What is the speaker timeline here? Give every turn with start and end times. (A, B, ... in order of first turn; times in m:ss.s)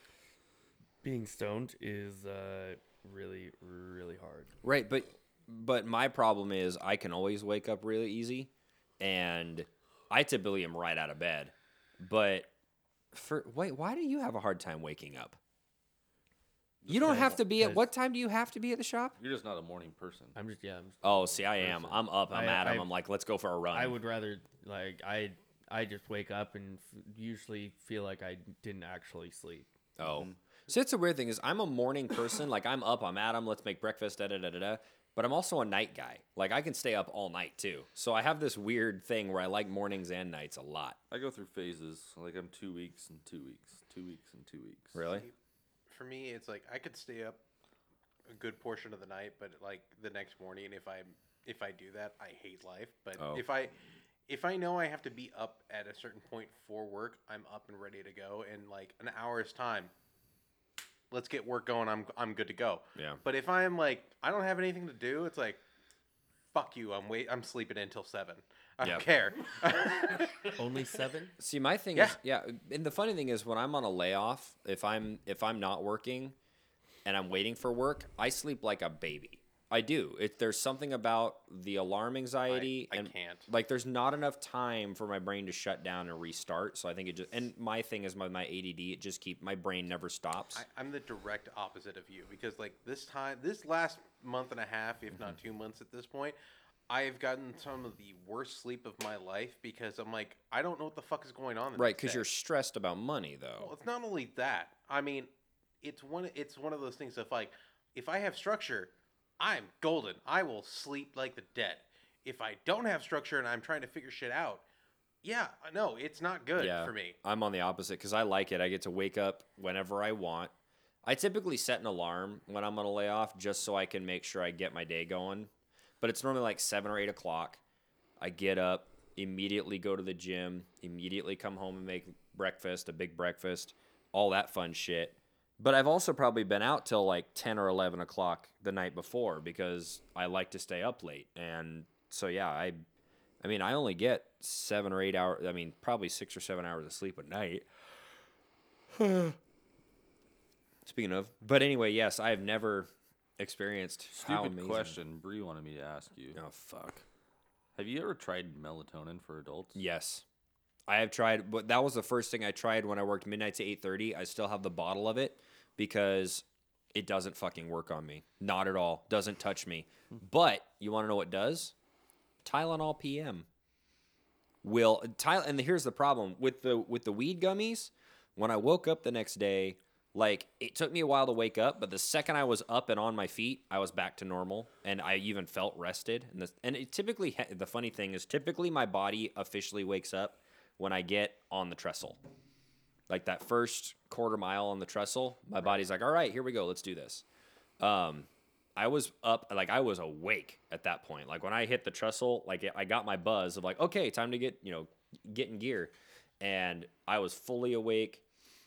0:01.0-0:04.6 A
0:04.6-0:12.5 B
0:13.1-0:15.4 B
0:16.8-0:17.4 C
0:16.9-0:19.2 B
0:17.0-0:17.8 A
0:19.2-0:20.4 C
0:20.4-0:22.9 A
0:21.0-0:24.0 B
0:23.7-0:29.7 A
0:30.0-0:41.0 B
0:41.1-0:45.0 C
0:45.0-0:45.3 B
0:45.1-0:45.3 D
0:45.9-0:47.4 D
0:48.3-0:53.8 D
0:53.2-0:53.4 B
0:54.3-0:59.9 D
1:01.1-1:05.6 D
1:03.0-1:03.2 B
1:06.5-1:10.6 D
1:10.6-1:11.4 A
1:11.4-1:16.4 B
1:17.0-1:30.6 B
1:22.5-1:23.5 D
1:30.6-1:36.4 D
1:36.9-1:42.3 D
1:41.8-1:43.7 B
1:43.6-1:45.3 D
1:45.8-1:54.6 D
1:55.2-1:57.2 D
1:56.6-2:00.5 B
2:01.0-2:05.5 B
2:06.0-2:07.6 B
2:08.2-2:22.8 B
2:23.4-2:27.7 B
2:28.9-2:29.4 B
2:30.8-2:35.0 B
2:34.1-2:36.4 C
2:36.3-2:37.0 B
2:37.8-2:39.8 C
2:39.8-2:40.2 B
2:40.9-2:51.7 B
2:52.4-2:53.5 B
2:54.6-3:12.2 B
3:13.1-3:17.2 B
3:17.8-3:28.2 B